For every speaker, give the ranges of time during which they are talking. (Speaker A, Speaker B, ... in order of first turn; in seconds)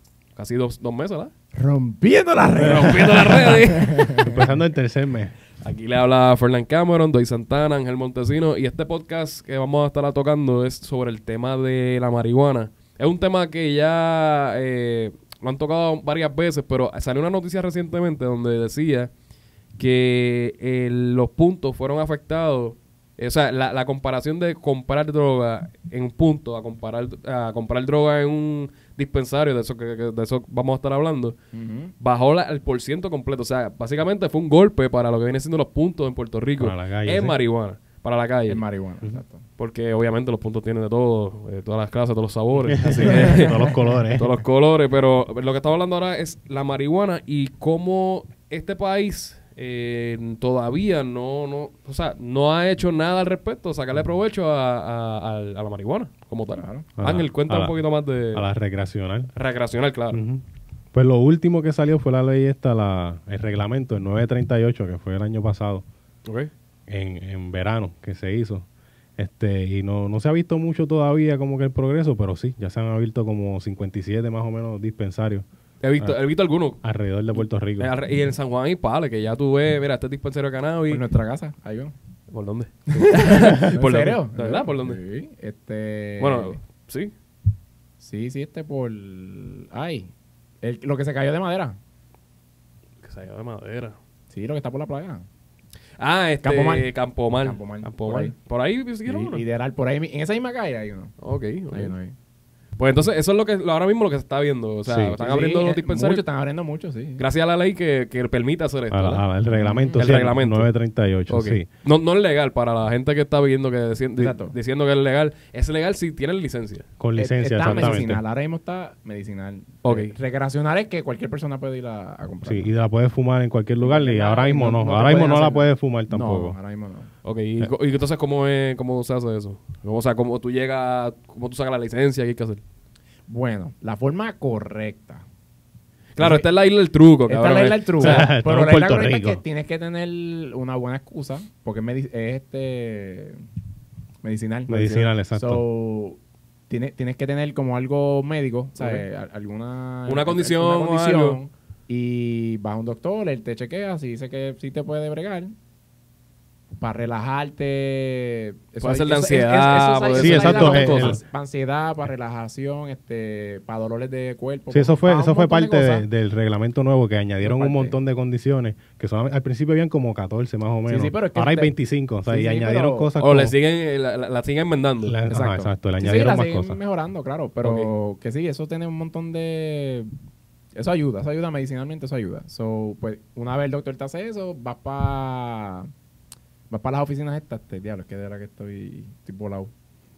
Speaker A: 0.3-1.3, 2.6-4.3, 5.6-19.1, 19.8-31.4, 32.0-38.6, 39.6-58.5, 59.3-60.2, 66.2-66.5, 75.8-76.8, 77.3-81.0, 82.3-85.0, 86.2-87.1, 93.0-94.0, 96.0-99.4, 101.2-101.9, 102.8-106.2, 107.2-109.2, 110.0-110.7, 111.3-116.9, 117.7-118.0, 119.8-120.1, 127.2-132.6, 136.2-138.2, 148.8-149.1, 150.1-151.4, 158.8-161.2, 173.2-175.6, 177.6-177.9
Speaker B: 1.6-4.6, 31.5-31.9, 38.5-39.4, 42.8-43.8, 56.5-56.9, 80.9-81.9, 82.9-86.6, 88.0-91.8, 94.3-95.2, 96.4-96.9, 97.4-98.3, 99.1-101.1, 101.7-102.2, 105.2-107.2, 109.5-110.0, 114.2-114.5, 117.2-122.7, 123.8-127.1, 133.3-135.2, 136.2-136.5, 137.3-143.4, 144.2-155.5, 156.8-166.1, 167.4-168.0, 170.9-171.7, 172.2-173.1, 175.3-180.1, 180.8-185.9, 186.7-189.7
Speaker C: 4.2-5.3, 36.6-37.4, 42.7-44.4, 57.0-57.8, 58.3-59.3, 60.1-65.8, 66.9-68.7, 69.2-75.5, 76.8-77.9, 104.8-105.2, 108.9-111.7, 117.0-118.2, 122.5-126.6, 138.0-139.4, 144.7-145.6, 160.2-161.2, 164.7-173.5, 175.0-176.8